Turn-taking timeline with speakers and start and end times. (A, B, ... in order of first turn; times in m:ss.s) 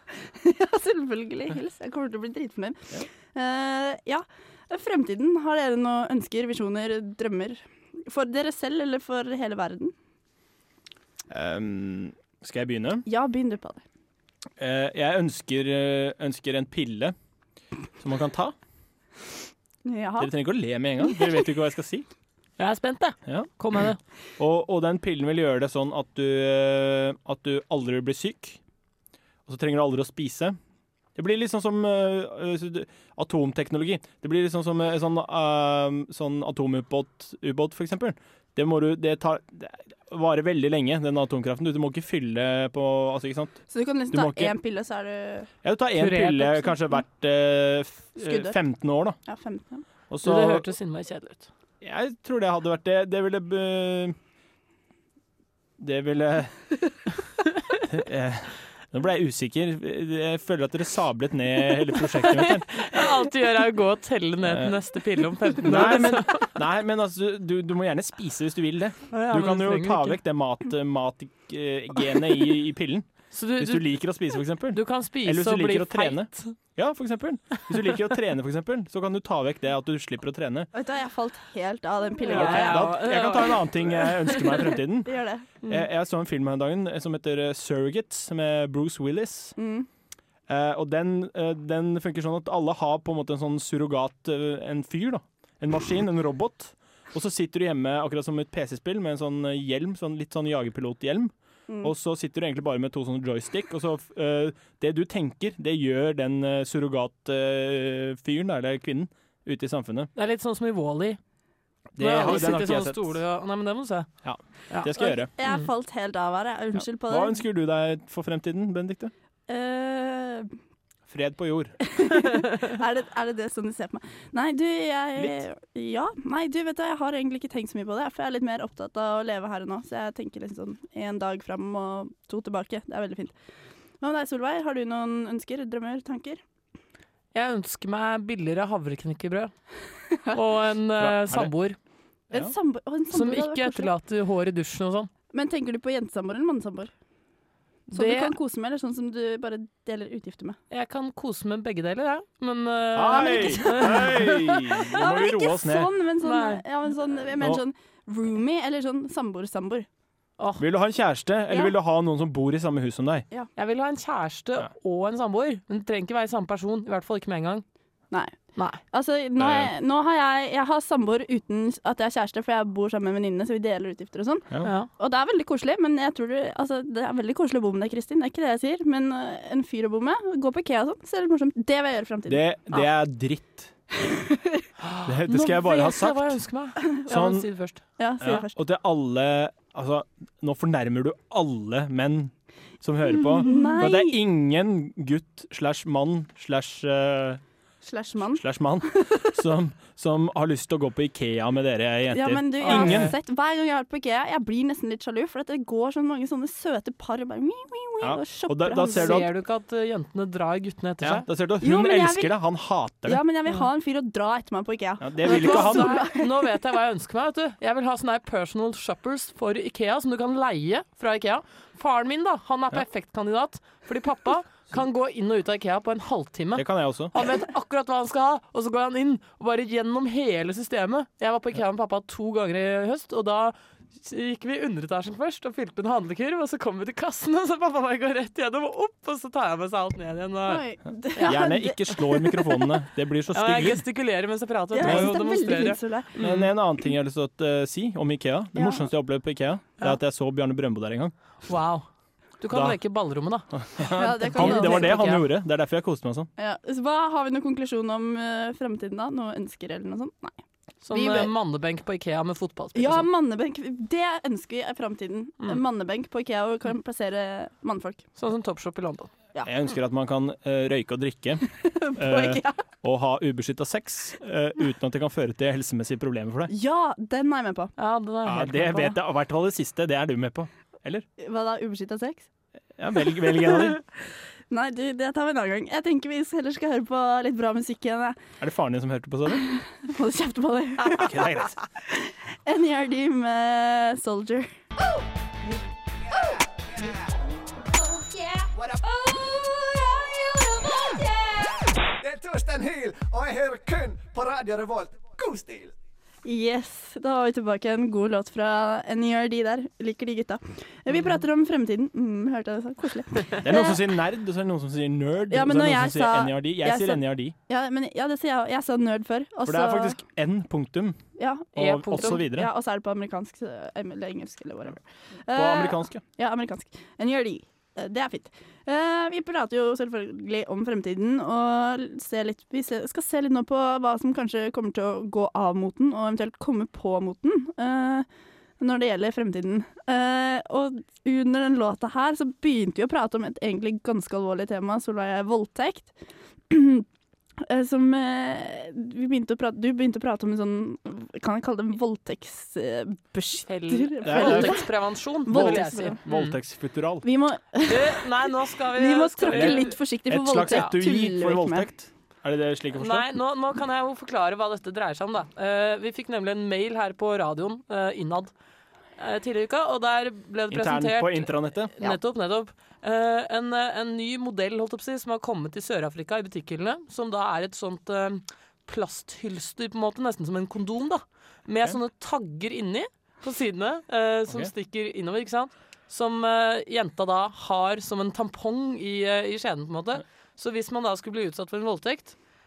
0:00.2-0:09.9 A
0:11.3-0:13.0 B
0:13.1-0:13.8 A
0:14.6-0:17.2 B
0:18.0-0:18.6 B
0:19.8-0:20.3 A
0:20.2-0:22.1 B
0:22.6-0:24.0 C
0:24.4-0:28.6 B
0:29.5-0:30.6 B
0:31.2-0:44.5 B
0:43.7-0:45.5 A
0:45.6-0:49.2 B
0:46.0-0:46.9 C
0:48.2-0:48.6 A
0:49.2-0:49.8 A
0:50.1-0:50.7 B
0:50.2-0:51.5 C
0:51.8-0:54.2 B
0:55.8-0:56.7 B
0:57.8-1:03.0 B
1:02.2-1:06.5 C
1:04.4-1:04.8 B
1:05.6-1:20.7 B
1:09.1-1:10.2 C
1:13.3-1:14.0 C
1:14.7-1:16.6 C
1:20.7-1:22.9 A
1:22.2-1:24.6 C
1:22.3-1:25.1 B
1:25.0-1:25.4 A
1:25.6-1:29.6 B
1:29.6-1:29.9 A
1:30.5-1:50.1 B
1:50.2-1:51.2 C
1:52.0-1:53.2 B
1:52.0-1:54.1 C
1:54.2-1:55.3 B
1:55.0-1:57.4 A
1:57.0-1:59.1 B
1:59.5-2:00.5 A
2:01.1-2:01.8 B
2:01.9-2:13.3 A
2:05.2-2:05.4 B
2:14.0-2:16.4 A
2:17.3-2:19.5 C
2:20.3-2:21.8 C
2:21.0-2:21.5 B
2:22.3-2:23.9 A
2:23.1-2:25.1 C
2:25.3-2:26.9 A
2:27.9-2:28.3 C
2:27.9-2:30.6 A
2:30.7-2:34.3 C
2:32.9-2:35.9 B
2:33.2-2:34.1 A
2:34.9-2:39.9 A
2:36.2-2:36.6 C
2:40.4-2:40.6 C
2:40.6-2:43.3 B
2:43.6-2:47.6 C
2:48.6-2:48.8 C
2:48.9-3:02.4 A
2:49.4-2:49.7 B
2:54.6-2:54.9 C
3:02.3-3:03.7 B
3:04.1-3:04.6 A
3:04.8-3:07.8 C
3:05.1-3:06.4 B
3:07.1-3:07.5 B
3:08.0-3:08.6 A
3:08.2-3:17.4 B
3:13.4-3:14.2 A
3:17.8-3:18.4 A
3:18.3-3:23.1 B
3:19.0-3:19.3 A
3:22.1-3:29.2 A
3:22.6-3:23.1 C
3:28.0-3:29.3 B
3:28.9-3:31.3 C
3:31.0-3:33.2 B
3:31.6-3:32.4 A
3:33.1-3:36.5 A
3:35.0-3:36.0 B
3:35.2-4:00.6 C
3:46.6-3:47.1 B
4:00.5-4:02.2 A
4:01.2-4:03.8 B
4:03.3-4:06.5 C
4:04.7-4:06.1 A
4:04.8-4:05.2 B
4:06.2-4:11.1 B
4:08.6-4:08.9 A
4:11.5-4:11.8 C
4:12.4-4:13.5 C
4:12.5-4:12.8 B
4:13.5-4:16.3 B
4:14.0-4:15.0 A
4:14.3-4:15.3 C
4:16.4-4:20.4 A
4:20.8-4:23.1 C
4:20.9-4:21.3 A
4:22.8-4:28.0 A
4:28.2-4:29.1 C
4:29.4-4:31.4 B
4:31.6-4:32.6 A
4:32.0-4:36.5 B
4:36.5-4:37.7 A
4:37.8-4:39.0 C
4:38.2-4:41.1 B
4:41.2-4:42.3 A
4:42.8-4:43.8 B
4:43.5-4:43.7 A
4:44.5-4:48.2 A
4:48.4-4:49.4 B
4:49.4-4:51.2 A
4:50.9-4:51.6 B
4:51.8-4:54.5 A
4:56.2-4:56.9 D
4:58.5-4:58.8 D
5:02.0-5:05.7 D
5:06.2-5:13.8 A
5:13.4-5:17.4 B
5:15.3-5:20.0 A
5:19.5-5:21.0 B
5:21.2-5:38.1 A
5:21.6-5:22.5 B
5:21.6-5:22.3 C
5:25.3-5:26.0 B
5:38.6-5:45.9 A
5:46.5-5:46.8 A
5:47.4-5:54.7 A
5:53.5-5:56.4 C
5:54.0-5:54.6 B
5:55.3-5:56.0 A
5:55.3-5:57.1 B
5:57.0-5:58.1 A
5:57.7-5:59.8 C
5:58.7-6:01.7 A
5:59.3-6:03.1 B
6:00.5-6:00.7 C
6:02.8-6:08.3 C
6:09.0-6:32.2 C
6:10.5-6:11.8 B